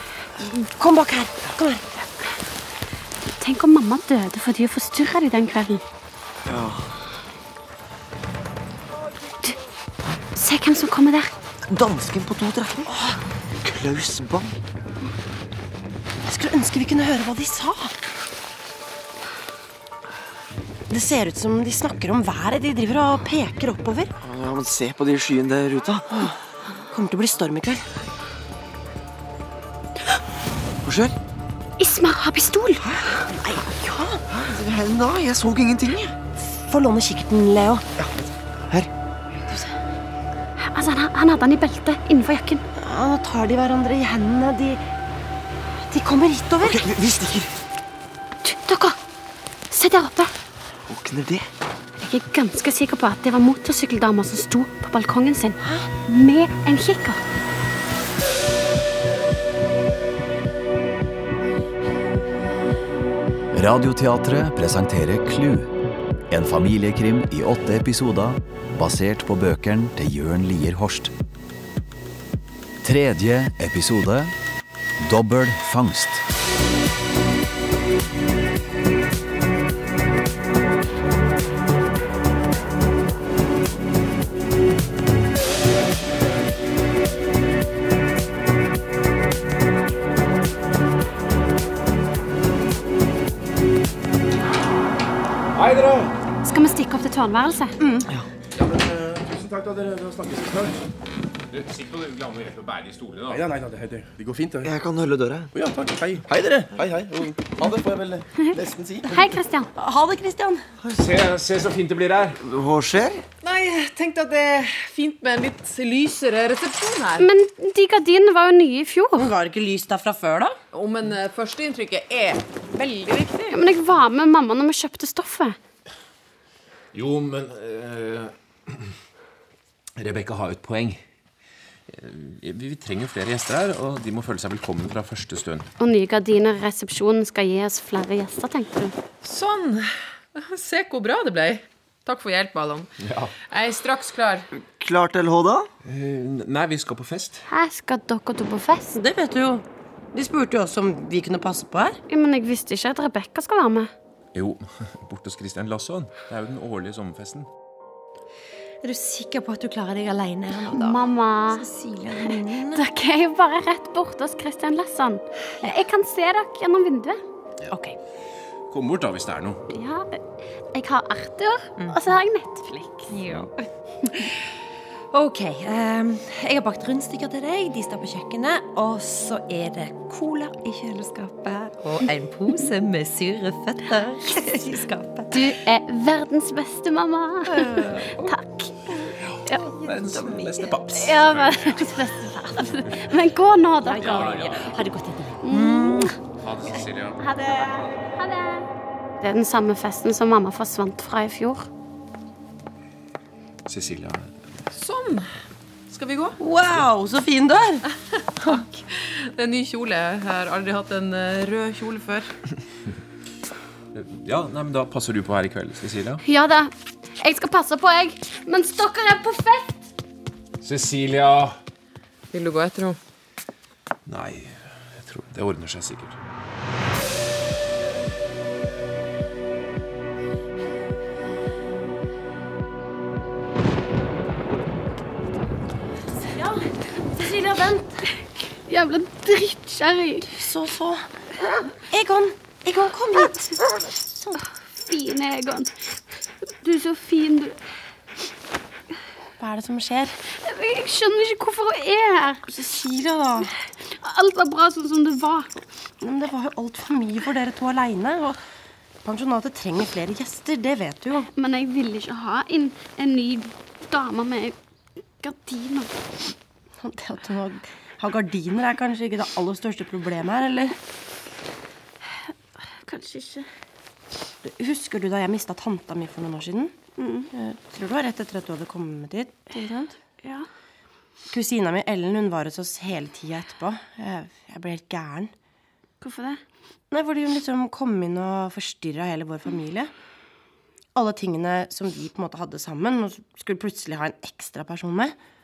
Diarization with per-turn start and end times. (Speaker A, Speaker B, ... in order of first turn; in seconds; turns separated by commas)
Speaker A: 0.4-2.0, Speaker B: 3.3-5.8, Speaker C: 6.5-6.9, Speaker B: 10.3-11.3, Speaker C: 11.7-12.9, Speaker C: 13.6-14.6, Speaker A: 16.3-17.9, Speaker A: 20.9-24.1, Speaker C: 24.2-26.3, Speaker A: 26.9-27.8, Speaker C: 30.8-31.2, Speaker B: 31.8-32.9, Speaker A: 33.3-34.2, Speaker C: 34.3-36.1, Speaker A: 36.5-37.9, Speaker B: 40.6-42.6, Speaker A: 42.8-44.8, Speaker A: 45.9-46.9, Speaker C: 46.6-47.6, Speaker B: 48.4-49.0, Speaker B: 49.7-50.3, Speaker C: 50.9-51.5, Speaker B: 52.0-57.2, Speaker D: 63.5-65.7, Speaker D: 66.3-71.1, Speaker D: 72.8-74.3, Speaker D: 75.0-76.2, Speaker E: 95.5-96.1, Speaker B: 96.4-97.8, Speaker A: 97.8-98.1, Speaker F: 98.5-100.8, Speaker E: 101.5-103.5, Speaker F: 103.3-104.7, Speaker C: 104.6-105.5, Speaker F: 105.5-109.3, Speaker B: 109.1-109.7, Speaker A: 109.8-110.7, Speaker E: 110.9-112.4, Speaker C: 112.4-113.2, Speaker G: 113.4-117.3, Speaker B: 117.2-119.3, Speaker A: 119.2-120.6, Speaker G: 120.7-123.6, Speaker B: 123.5-125.6, Speaker E: 126.9-128.9, Speaker E: 130.0-131.0, Speaker E: 131.9-135.7, Speaker B: 135.8-138.9, Speaker G: 139.2-142.9, Speaker E: 143.0-143.3, Speaker G: 143.5-144.5, Speaker C: 144.7-145.7, Speaker E: 145.8-147.5, Speaker B: 147.5-149.0, Speaker A: 149.0-152.0, Speaker B: 152.1-153.9, Speaker E: 154.3-157.5, Speaker H: 158.8-160.9, Speaker B: 160.8-161.7, Speaker H: 162.1-162.4, Speaker B: 162.7-167.2, Speaker E: 168.7-169.6, Speaker B: 169.7-170.2, Speaker B: 170.7-173.1, Speaker H: 175.2-185.2, Speaker B: 185.3-189.7, Speaker G: 187.9-188.3, Speaker E: 189.3-192.0, Speaker B: 190.9-194.4, Speaker E: 194.0-194.8, Speaker H: 194.2-194.4, Speaker B: 195.4-196.2, Speaker E: 196.3-197.3, Speaker B: 197.3-197.6, Speaker B: 198.2-198.7, Speaker B: 199.2-201.7, Speaker E: 203.7-204.3, Speaker G: 204.7-205.3, Speaker G: 205.9-206.4, Speaker A: 206.4-207.8, Speaker G: 208.4-212.3, Speaker E: 213.9-216.2, Speaker B: 216.2-219.9, Speaker E: 220.6-221.6, Speaker G: 222.3-223.0, Speaker E: 224.1-226.2, Speaker A: 236.3-237.9, Speaker B: 238.7-240.3, Speaker A: 240.3-241.1, Speaker A: 241.9-243.5, Speaker B: 244.9-245.7, Speaker B: 246.6-247.6, Speaker A: 249.4-250.2, Speaker B: 250.4-252.4, Speaker A: 252.5-253.5, Speaker B: 253.9-255.5, Speaker A: 256.0-258.4, Speaker A: 259.1-261.3, Speaker B: 261.4-264.6, Speaker B: 265.2-265.9, Speaker A: 266.8-270.8, Speaker B: 272.8-273.5, Speaker A: 274.4-276.8, Speaker B: 277.0-277.3, Speaker A: 277.3-279.9, Speaker B: 280.2-280.5, Speaker A: 281.3-285.3, Speaker B: 286.0-286.4, Speaker A: 286.9-289.9, Speaker A: 290.9-295.2